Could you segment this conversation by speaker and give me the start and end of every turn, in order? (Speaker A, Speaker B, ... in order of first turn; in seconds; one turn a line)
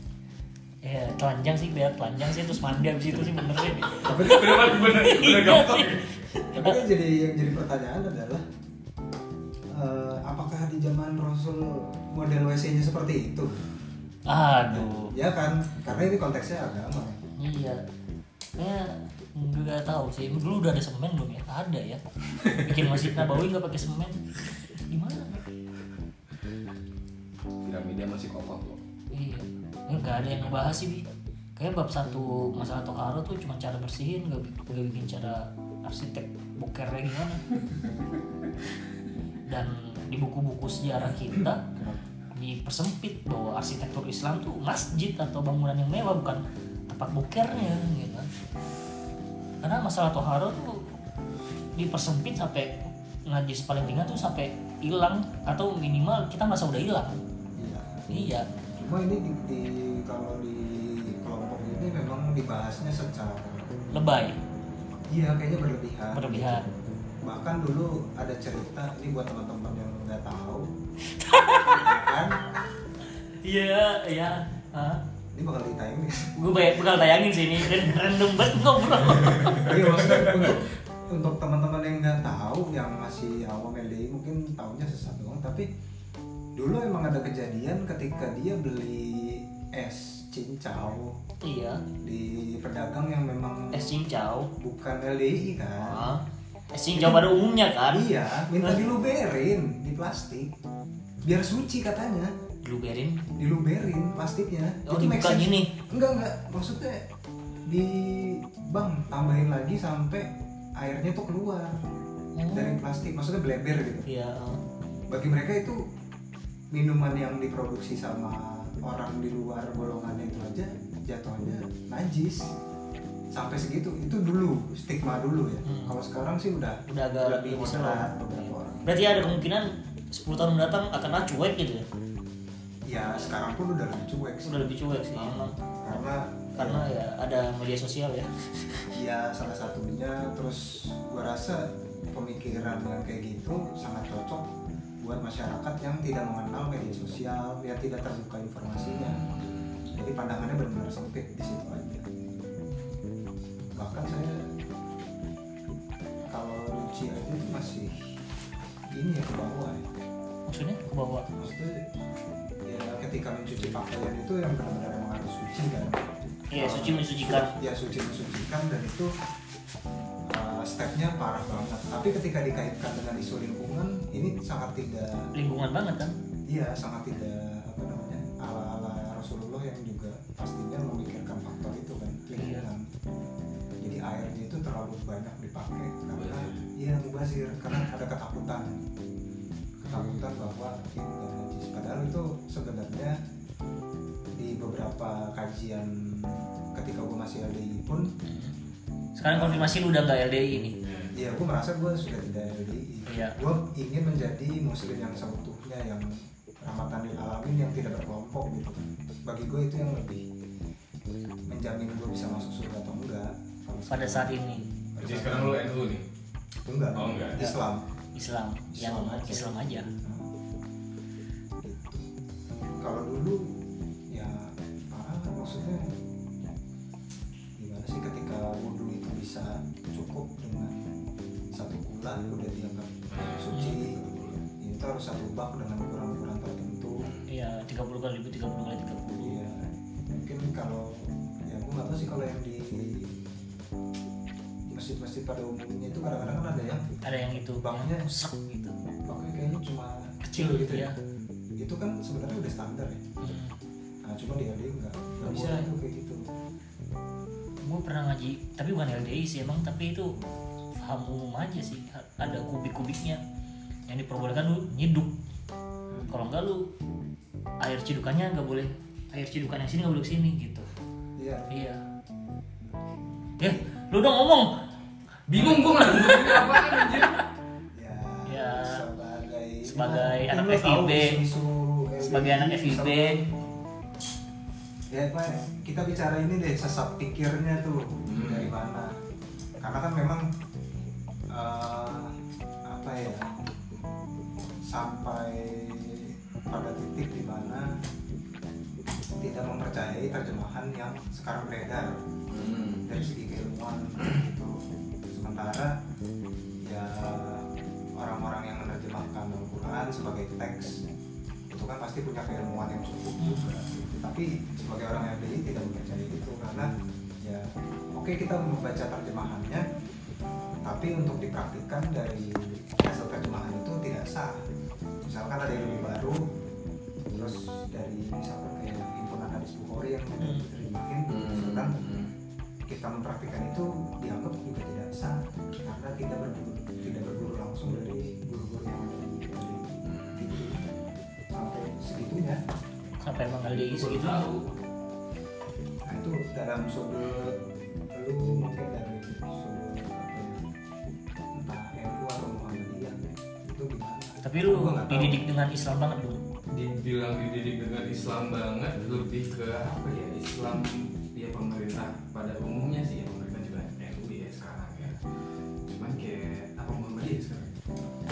Speaker A: 0.8-6.8
Speaker B: 3.9-6.2
Speaker C: 6.5-8.4
Speaker C: 9.7-13.6
Speaker A: 14.3-15.1
Speaker C: 14.6-17.2
Speaker A: 17.4-17.8
Speaker A: 18.6-24.2
Speaker B: 22.4-23.1
Speaker A: 24.9-25.4
Speaker B: 27.6-28.8
Speaker A: 29.1-31.0
Speaker A: 31.6-37.4
Speaker A: 39.4-41.6
Speaker C: 41.6-42.0
Speaker A: 42.3-48.3
Speaker A: 49.6-50.9
Speaker A: 51.7-57.2
Speaker C: 57.5-63.9
Speaker A: 58.1-58.5
Speaker A: 63.9-64.4
Speaker C: 65.1-70.7
Speaker A: 66.1-66.7
Speaker A: 71.1-71.9
Speaker C: 71.6-72.4
Speaker A: 73.4-75.0
Speaker C: 75.3-76.5
Speaker A: 76.3-79.7
Speaker C: 77.7-77.9
Speaker B: 79.3-80.5
Speaker C: 79.5-85.7
Speaker C: 86.5-91.2
Speaker A: 91.4-91.8
Speaker C: 92.0-93.9
Speaker A: 93.7-94.5
Speaker C: 94.6-96.1
Speaker A: 95.8-96.2
Speaker A: 96.7-98.8
Speaker C: 96.9-97.3
Speaker C: 97.9-100.5
Speaker C: 101.2-102.3
Speaker A: 102.6-103.2
Speaker C: 103.3-107.1
Speaker A: 104.8-105.7
Speaker C: 107.7-112.0
Speaker A: 112.3-112.8
Speaker C: 112.5-114.1
Speaker A: 114.0-114.6
Speaker C: 115.1-115.8
Speaker C: 116.7-122.5
Speaker C: 123.3-128.9
Speaker A: 125.7-125.9
Speaker A: 126.9-128.1
Speaker A: 128.8-131.8
Speaker C: 132.9-136.9
Speaker A: 134.4-135.5
Speaker A: 136.6-138.8
Speaker C: 138.9-144.5
Speaker C: 145.0-149.3
Speaker B: 148.8-149.8
Speaker C: 149.9-152.0
Speaker C: 153.7-154.5
Speaker C: 156.3-158.1
Speaker C: 158.9-159.8
Speaker A: 160.5-161.3
Speaker C: 161.3-161.8
Speaker C: 162.7-169.1
Speaker A: 166.5-167.5
Speaker C: 170.3-175.3
Speaker A: 175.3-176.1
Speaker C: 176.5-182.9
Speaker A: 182.3-182.7
Speaker C: 183.8-188.8
Speaker B: 186.1-186.7
Speaker C: 189.8-193.2
Speaker A: 189.8-190.3
Speaker C: 194.3-198.1
Speaker A: 198.2-198.5
Speaker A: 199.2-200.7
Speaker C: 199.3-199.8
Speaker B: 200.8-201.1
Speaker C: 201.1-210.3
Speaker A: 203.1-203.4
Speaker C: 211.5-214.3
Speaker A: 213.9-214.7
Speaker C: 214.9-215.7
Speaker B: 215.0-216.0
Speaker C: 216.7-217.9
Speaker B: 216.9-217.5
Speaker A: 218.1-219.9
Speaker C: 218.7-220.3
Speaker C: 221.6-222.1
Speaker C: 222.8-225.9
Speaker C: 227.6-230.8
Speaker C: 231.5-237.1
Speaker B: 233.1-234.4
Speaker B: 237.0-237.3
Speaker A: 237.3-239.4
Speaker C: 239.1-243.2
Speaker C: 244.7-246.9
Speaker A: 247.0-248.8
Speaker C: 247.6-248.1
Speaker C: 249.1-250.9
Speaker A: 250.2-251.0
Speaker C: 251.6-253.2
Speaker A: 253.2-253.5
Speaker C: 254.0-256.3
Speaker A: 255.2-255.7
Speaker A: 257.6-260.2
Speaker A: 260.8-263.2
Speaker A: 263.9-265.1
Speaker A: 266.1-266.7
Speaker A: 267.6-270.7
Speaker C: 271.2-271.5
Speaker A: 271.5-271.8
Speaker A: 273.4-274.6
Speaker B: 275.3-277.2
Speaker A: 275.8-277.1
Speaker C: 277.7-283.3
Speaker A: 278.3-278.8
Speaker A: 279.6-281.2
Speaker A: 282.0-283.2
Speaker C: 284.9-288.9
Speaker B: 288.1-288.5
Speaker C: 289.6-290.3
Speaker C: 291.3-293.3
Speaker C: 294.6-297.7
Speaker C: 299.2-302.0
Speaker B: 302.3-302.9
Speaker C: 302.9-305.8
Speaker C: 306.6-310.8
Speaker C: 311.5-316.7
Speaker A: 313.2-313.5
Speaker C: 317.2-319.6
Speaker C: 320.6-324.4
Speaker C: 325.1-326.3
Speaker B: 325.5-325.9
Speaker C: 327.1-331.8
Speaker A: 330.2-330.5
Speaker B: 331.1-332.1
Speaker C: 332.7-340.6
Speaker B: 339.8-340.8
Speaker C: 341.3-342.4
Speaker A: 343.0-344.3
Speaker B: 343.5-344.5
Speaker C: 345.8-347.4
Speaker C: 347.9-350.4
Speaker C: 351.3-355.2
Speaker A: 354.2-356.2
Speaker B: 356.5-365.0
Speaker B: 365.6-367.6